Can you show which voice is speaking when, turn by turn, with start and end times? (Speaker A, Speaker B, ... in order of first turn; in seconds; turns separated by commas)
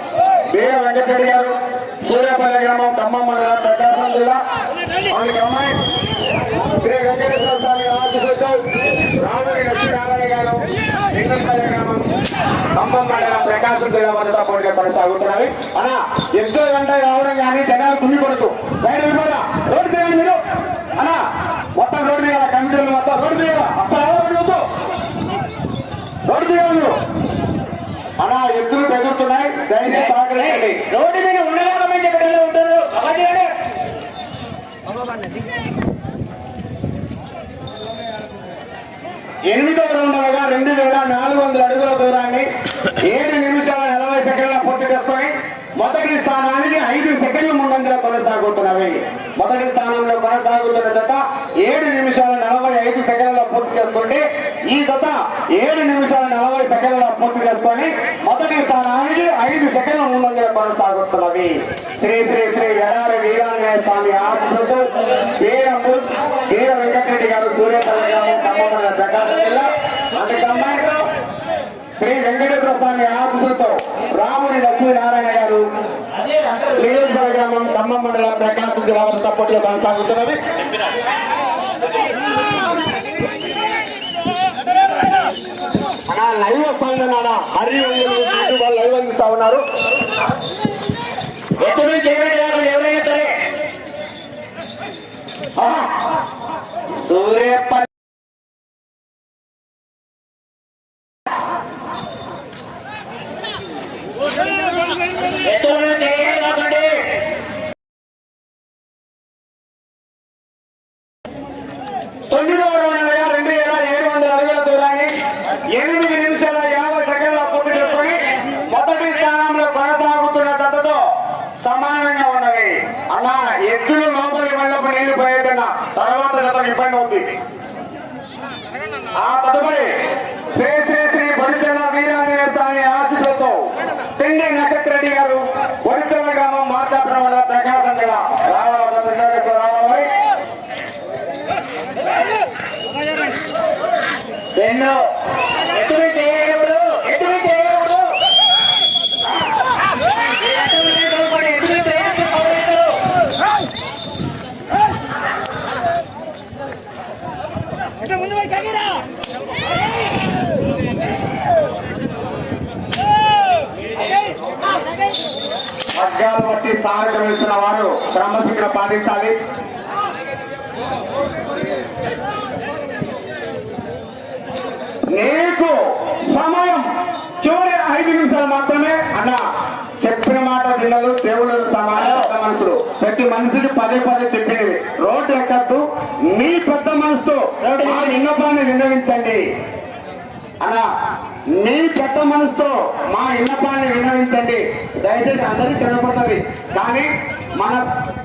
Speaker A: 0.5-4.4, Speaker A: 5.1-5.8, Speaker A: 6.7-8.6, Speaker A: 9.2-12.1, Speaker A: 12.8-20.4, Speaker A: 21.0-21.2, Speaker A: 21.8-24.6, Speaker A: 26.3-27.0, Speaker A: 28.2-30.8, Speaker B: 29.9-33.5, Speaker A: 39.5-42.5, Speaker A: 43.0-71.0, Speaker A: 72.0-75.7, Speaker A: 76.7-80.4, Speaker A: 86.1-89.6, Speaker B: 91.6-93.4, Speaker A: 95.6-95.9, Speaker A: 96.9-97.8, Speaker B: 105.4-107.0, Speaker A: 112.3-115.1, Speaker A: 115.7-121.0, Speaker A: 121.6-127.3, Speaker A: 129.2-130.0, Speaker A: 130.5-140.1, Speaker B: 144.6-145.1, Speaker B: 145.6-148.2, Speaker B: 150.4-153.0, Speaker A: 166.0-169.4, Speaker A: 175.1-176.9, Speaker A: 177.4-179.4, Speaker A: 180.0-189.4, Speaker B: 182.0-182.3, Speaker B: 187.6-188.2, Speaker A: 191.6-197.8